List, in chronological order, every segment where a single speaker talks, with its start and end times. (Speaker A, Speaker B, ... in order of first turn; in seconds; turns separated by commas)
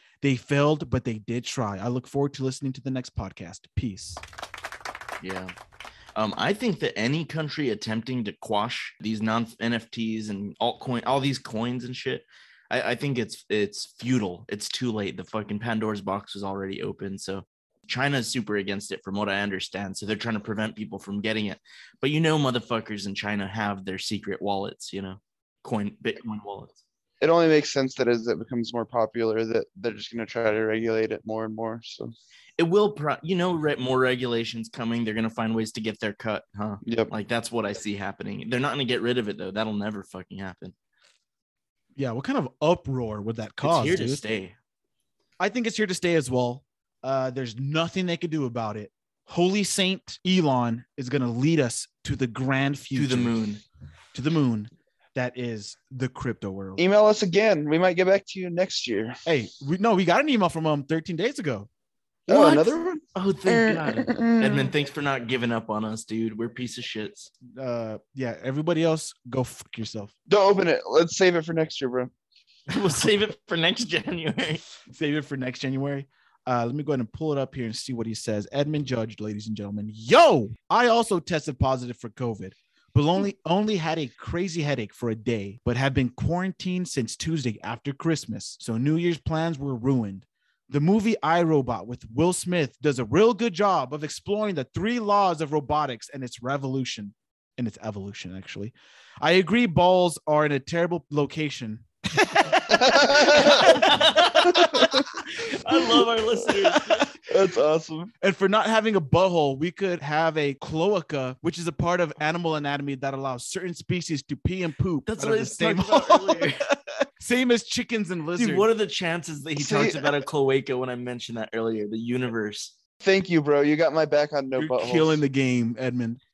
Speaker A: 0.2-4.2, Speaker B: 5.2-5.5, Speaker B: 6.1-26.8, Speaker C: 27.2-32.1, Speaker B: 32.6-40.7, Speaker C: 36.8-37.1, Speaker A: 42.0-44.2, Speaker B: 43.6-44.5, Speaker A: 45.4-53.3, Speaker B: 52.9-53.6, Speaker A: 54.1-56.8, Speaker C: 56.8-59.2, Speaker A: 59.2-61.7, Speaker C: 62.3-64.7, Speaker B: 63.1-67.3, Speaker A: 67.5-70.1, Speaker C: 70.3-72.1, Speaker B: 72.7-74.6, Speaker A: 74.9-104.8, Speaker C: 102.7-103.7, Speaker B: 103.4-107.1, Speaker C: 104.5-105.0, Speaker C: 107.3-108.1, Speaker A: 108.2-118.7, Speaker B: 115.1-116.7, Speaker B: 118.4-122.7, Speaker C: 119.6-120.0, Speaker A: 119.7-120.1, Speaker C: 123.0-125.2, Speaker A: 124.5-126.2